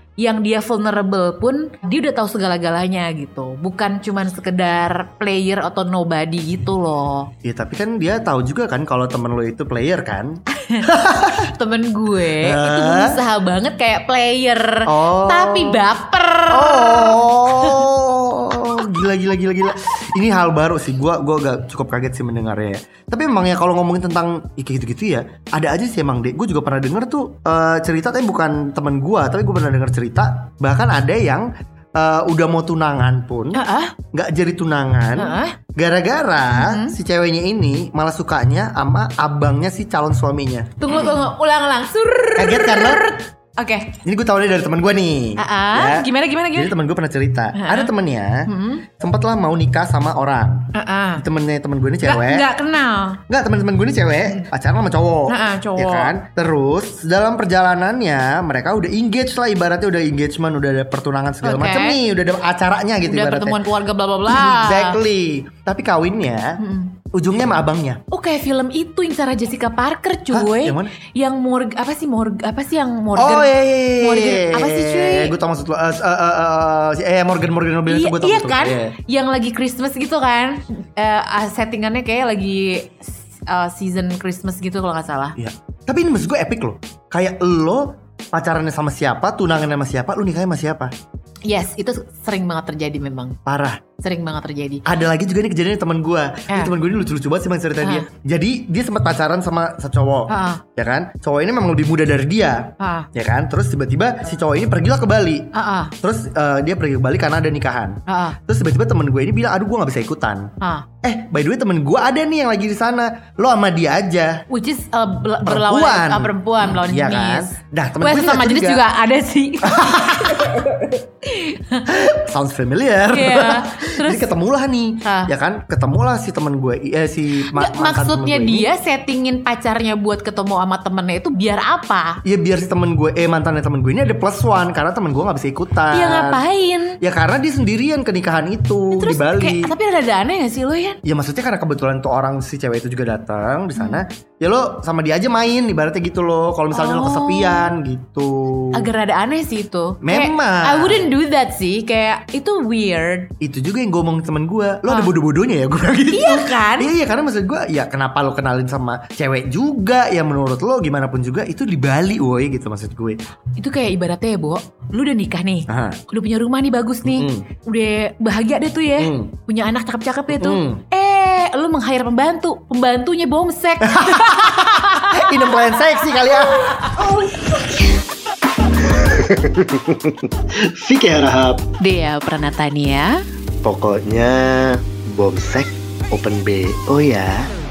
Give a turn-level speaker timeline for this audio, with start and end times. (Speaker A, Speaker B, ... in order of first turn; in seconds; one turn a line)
Speaker A: 0.2-7.3
Speaker B: 7.4-11.5
Speaker A: 10.5-17.9
Speaker B: 12.4-13.2
Speaker B: 14.9-15.9
Speaker B: 16.5-33.6
Speaker A: 33.5-33.9
Speaker B: 34.1-41.2
Speaker A: 35.1-35.6
Speaker A: 36.5-36.9
Speaker A: 40.8-44.0
Speaker B: 42.4-43.1
Speaker B: 44.0-48.5
Speaker A: 45.4-46.7
Speaker A: 47.5-47.9
Speaker A: 48.5-48.9
Speaker B: 49.0-52.5
Speaker A: 50.7-51.2
Speaker A: 52.0-53.2
Speaker B: 53.3-63.6
Speaker A: 55.3-56.1
Speaker A: 61.4-62.0
Speaker A: 63.0-65.0
Speaker B: 64.2-66.6
Speaker A: 66.6-67.0
Speaker B: 67.1-68.0
Speaker A: 68.1-75.3
Speaker B: 70.3-70.9
Speaker B: 73.2-79.0
Speaker A: 77.9-85.4
Speaker B: 85.4-90.9
Speaker A: 91.5-93.4
Speaker B: 93.5-93.8
Speaker A: 94.0-94.8
Speaker B: 94.9-105.5
Speaker A: 97.8-98.1
Speaker A: 100.3-100.6
Speaker A: 102.8-103.1
Speaker A: 105.5-105.9
Speaker B: 106.0-110.5
Speaker A: 108.1-108.4
Speaker A: 110.6-110.9
Speaker B: 111.0-114.4
Speaker A: 114.5-122.0
Speaker B: 115.5-118.8
Speaker B: 119.6-120.6
Speaker B: 121.9-128.7
Speaker A: 123.1-124.3
Speaker A: 125.0-125.3
Speaker A: 127.4-132.2
Speaker B: 132.2-136.4
Speaker A: 135.9-137.0
Speaker B: 137.0-139.7
Speaker A: 138.9-141.0
Speaker B: 141.0-148.9
Speaker A: 143.8-144.0
Speaker A: 146.7-147.7
Speaker A: 148.7-153.3
Speaker B: 150.0-151.1
Speaker B: 153.4-163.2
Speaker A: 154.9-155.1
Speaker A: 156.1-156.9
Speaker A: 163.6-177.9
Speaker B: 165.7-166.0
Speaker B: 167.0-167.5
Speaker B: 169.0-169.3
Speaker B: 170.3-170.8
Speaker B: 173.8-177.2
Speaker C: 179.4-180.1
Speaker C: 180.7-181.6
Speaker A: 181.8-183.2
Speaker C: 183.6-187.5